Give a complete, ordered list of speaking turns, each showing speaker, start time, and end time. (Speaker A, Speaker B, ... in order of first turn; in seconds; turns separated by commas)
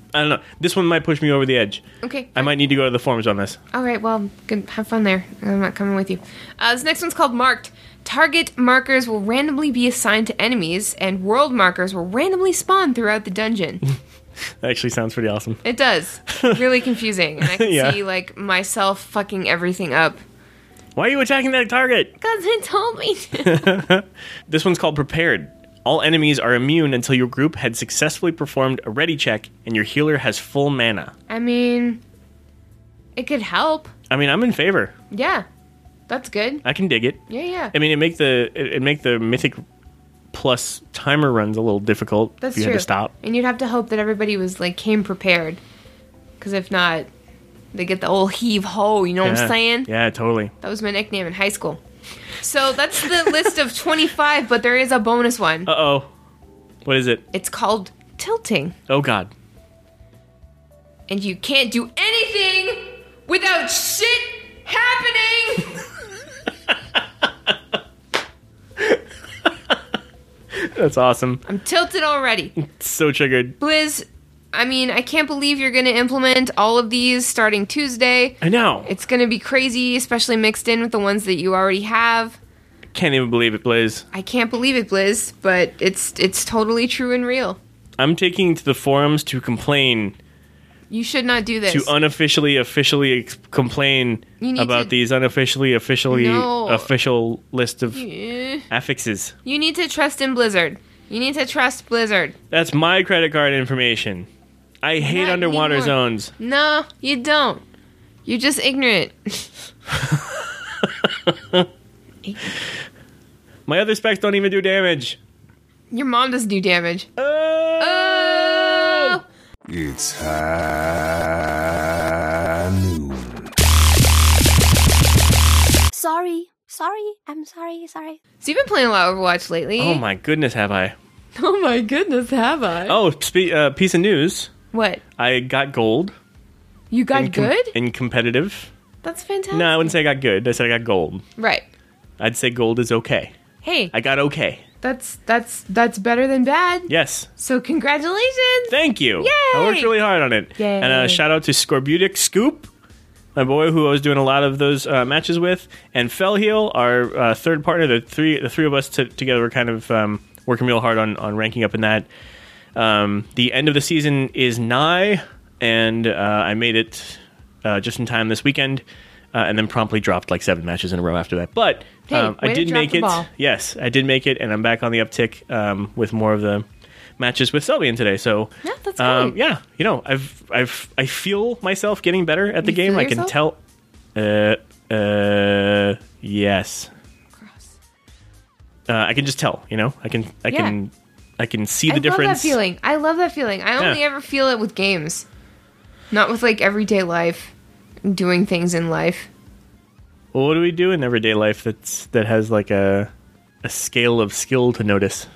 Speaker A: 0.1-1.8, Speaker B: 2.0-2.5, Speaker A: 2.4-3.6, Speaker B: 3.7-13.8, Speaker A: 14.6-15.6, Speaker B: 15.6-20.2, Speaker A: 16.3-16.6, Speaker A: 17.4-18.0, Speaker A: 21.0-22.1, Speaker B: 22.2-23.8, Speaker A: 23.4-31.1, Speaker B: 31.3-32.0, Speaker B: 33.2-33.9, Speaker A: 34.1-34.9, Speaker B: 35.1-35.5, Speaker B: 36.1-36.6, Speaker A: 36.6-39.6, Speaker B: 37.3-37.7, Speaker A: 40.3-43.1, Speaker B: 42.4-45.6, Speaker B: 46.4-47.1, Speaker B: 47.7-49.9, Speaker A: 49.2-50.5, Speaker B: 50.6-51.8, Speaker B: 52.4-55.7, Speaker A: 53.1-53.5, Speaker A: 55.7-56.1, Speaker A: 56.9-57.2, Speaker B: 57.3-58.8, Speaker A: 58.9-59.3, Speaker B: 61.1-65.8, Speaker A: 70.5-71.4, Speaker B: 71.5-72.5, Speaker A: 72.6-73.6, Speaker B: 73.6-82.4, Speaker A: 78.4-78.9, Speaker A: 82.9-84.1, Speaker B: 84.1-87.6, Speaker A: 88.0-90.2, Speaker B: 90.9-91.9, Speaker A: 91.7-98.1, Speaker B: 94.4-94.9, Speaker B: 96.1-96.9, Speaker B: 97.9-98.7, Speaker A: 98.7-99.3, Speaker B: 99.5-102.4, Speaker A: 102.5-104.3, Speaker A: 104.8-106.3, Speaker B: 105.0-107.6, Speaker B: 108.3-109.5, Speaker A: 110.0-111.7, Speaker A: 113.7-115.2, Speaker B: 115.9-117.1, Speaker A: 117.2-119.2, Speaker B: 117.8-119.2, Speaker C: 119.7-123.5, Speaker D: 125.9-128.2, Speaker B: 128.4-130.0, Speaker A: 129.8-131.0, Speaker B: 131.4-133.0, Speaker A: 132.9-134.5, Speaker B: 134.7-135.0, Speaker A: 135.2-136.2, Speaker B: 136.9-137.8, Speaker A: 137.1-138.7, Speaker B: 139.0-139.9, Speaker A: 139.5-141.2, Speaker B: 141.4-141.6, Speaker A: 142.2-143.3, Speaker B: 143.6-143.9, Speaker A: 143.9-144.6, Speaker B: 144.8-149.9, Speaker A: 146.9-147.3, Speaker A: 148.7-152.7, Speaker B: 150.6-151.2, Speaker A: 153.3-162.1, Speaker A: 162.8-176.7, Speaker B: 172.1-173.3, Speaker A: 177.2-183.6, Speaker B: 178.6-179.4, Speaker B: 182.6-183.3, Speaker A: 184.2-186.9, Speaker B: 187.4-187.7, Speaker A: 188.9-192.6, Speaker B: 190.5-190.8, Speaker B: 191.9-195.3, Speaker B: 196.1-197.5, Speaker B: 198.1-199.3, Speaker A: 200.3-203.1, Speaker A: 203.6-205.3